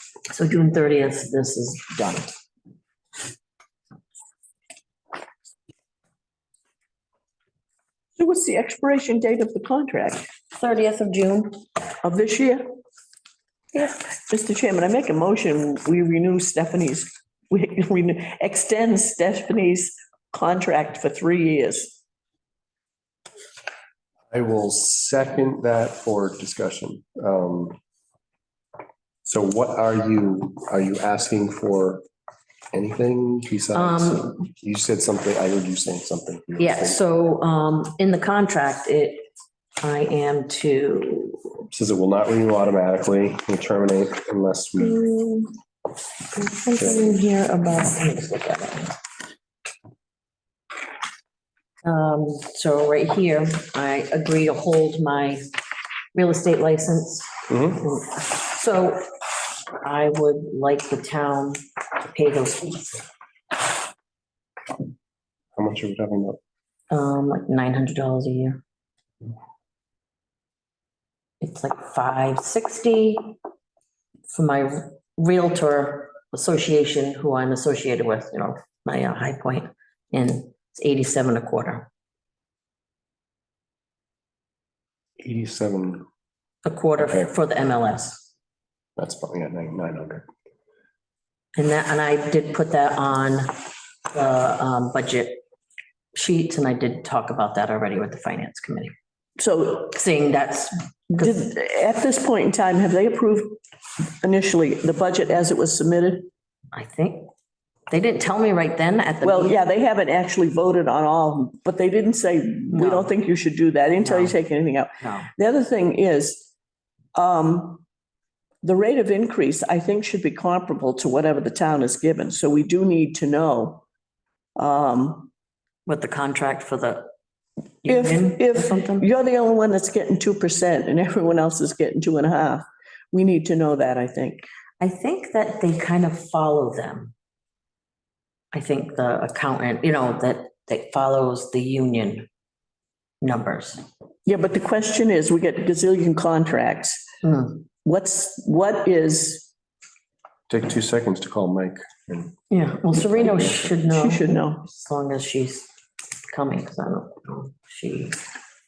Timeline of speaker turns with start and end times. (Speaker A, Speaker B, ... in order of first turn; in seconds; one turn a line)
Speaker A: 0.3-2.3
Speaker B: 8.2-10.3
Speaker A: 10.6-11.6
Speaker B: 12.0-12.6
Speaker B: 13.8-22.0
Speaker C: 24.3-27.8
Speaker C: 29.2-32.0
Speaker C: 32.7-37.0
Speaker A: 33.7-34.5
Speaker A: 36.6-39.3
Speaker A: 39.8-41.6
Speaker C: 41.7-45.0
Speaker A: 44.8-45.5
Speaker A: 46.3-49.0
Speaker A: 51.8-55.4
Speaker A: 56.1-59.1
Speaker C: 57.5-57.8
Speaker A: 59.8-63.1
Speaker C: 65.6-66.4
Speaker A: 66.9-68.6
Speaker A: 71.4-73.4
Speaker A: 74.3-81.9
Speaker C: 85.2-86.1
Speaker A: 86.7-88.2
Speaker C: 89.0-90.2
Speaker A: 91.6-93.6
Speaker A: 94.1-95.4
Speaker A: 96.2-98.9
Speaker B: 99.4-100.0
Speaker A: 99.9-101.4
Speaker B: 101.1-103.6
Speaker B: 104.2-106.3
Speaker A: 106.7-107.3
Speaker A: 107.9-109.6
Speaker B: 109.2-116.5
Speaker A: 112.7-113.1
Speaker A: 114.0-114.4
Speaker A: 115.0-115.3
Speaker B: 117.2-117.8
Speaker B: 118.6-123.8
Speaker B: 124.5-125.3
Speaker A: 125.8-127.1
Speaker A: 127.8-129.1
Speaker B: 127.9-134.5
Speaker A: 134.8-137.1
Speaker A: 138.5-142.3
Speaker A: 143.2-143.8
Speaker B: 144.3-147.0
Speaker A: 147.2-147.6
Speaker B: 147.8-149.5
Speaker C: 150.5-152.3
Speaker A: 152.5-155.7
Speaker C: 153.2-153.5
Speaker B: 153.9-154.6
Speaker A: 156.3-158.2